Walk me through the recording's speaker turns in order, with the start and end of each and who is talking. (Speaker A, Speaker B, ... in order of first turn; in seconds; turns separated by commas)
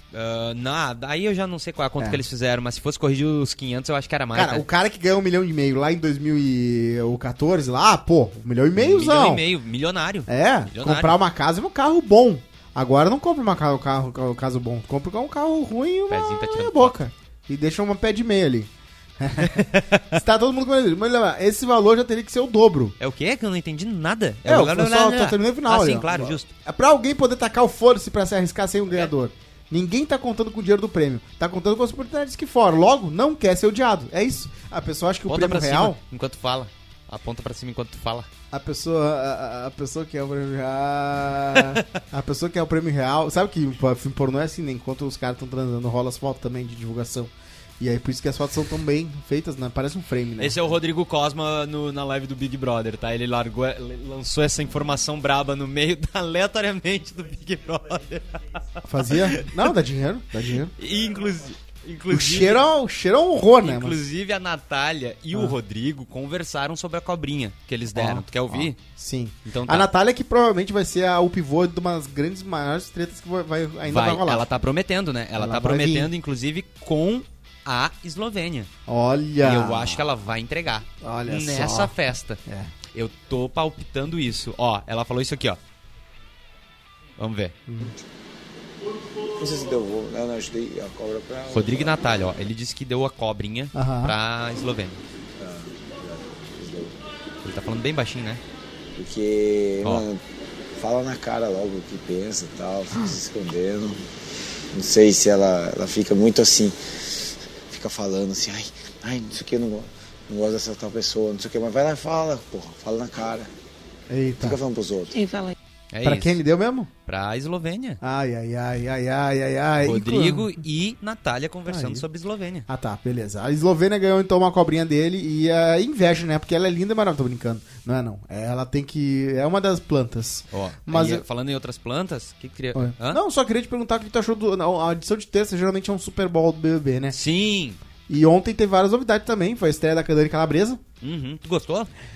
Speaker A: 0.1-4.6, Speaker B: 4.3-9.4, Speaker A: 8.8-11.2, Speaker B: 10.3-22.9, Speaker A: 16.1-17.0, Speaker A: 19.4-20.1, Speaker A: 23.0-26.5, Speaker B: 24.4-36.0, Speaker A: 35.3-38.3, Speaker B: 38.5-50.6, Speaker A: 41.5-42.0, Speaker A: 50.4-59.7, Speaker B: 58.8-60.7, Speaker A: 60.7-62.6, Speaker B: 62.1-64.0, Speaker A: 63.6-68.8, Speaker B: 67.9-74.5, Speaker A: 69.4-69.9, Speaker A: 73.8-78.7, Speaker B: 75.3-76.1, Speaker B: 78.9-80.0, Speaker A: 79.4-82.4, Speaker B: 81.0-81.9, Speaker B: 82.5-82.7, Speaker A: 82.9-85.6, Speaker A: 87.2-87.6, Speaker B: 87.7-87.9, Speaker C: 89.3-92.0, Speaker A: 91.5-95.0, Speaker B: 93.7-94.2, Speaker C: 95.4-97.0, Speaker A: 97.4-98.4, Speaker C: 99.0-100.2, Speaker C: 100.7-104.0, Speaker C: 104.7-113.5, Speaker B: 114.1-114.6, Speaker C: 114.4-115.2, Speaker A: 115.9-116.4, Speaker B: 116.0-116.9, Speaker A: 117.0-118.0, Speaker B: 118.0-120.5, Speaker A: 119.8-122.7, Speaker B: 121.7-122.0, Speaker B: 122.7-131.2, Speaker A: 130.5-133.2, Speaker B: 132.7-137.2, Speaker A: 137.1-137.8, Speaker B: 138.1-140.8, Speaker A: 141.0-141.9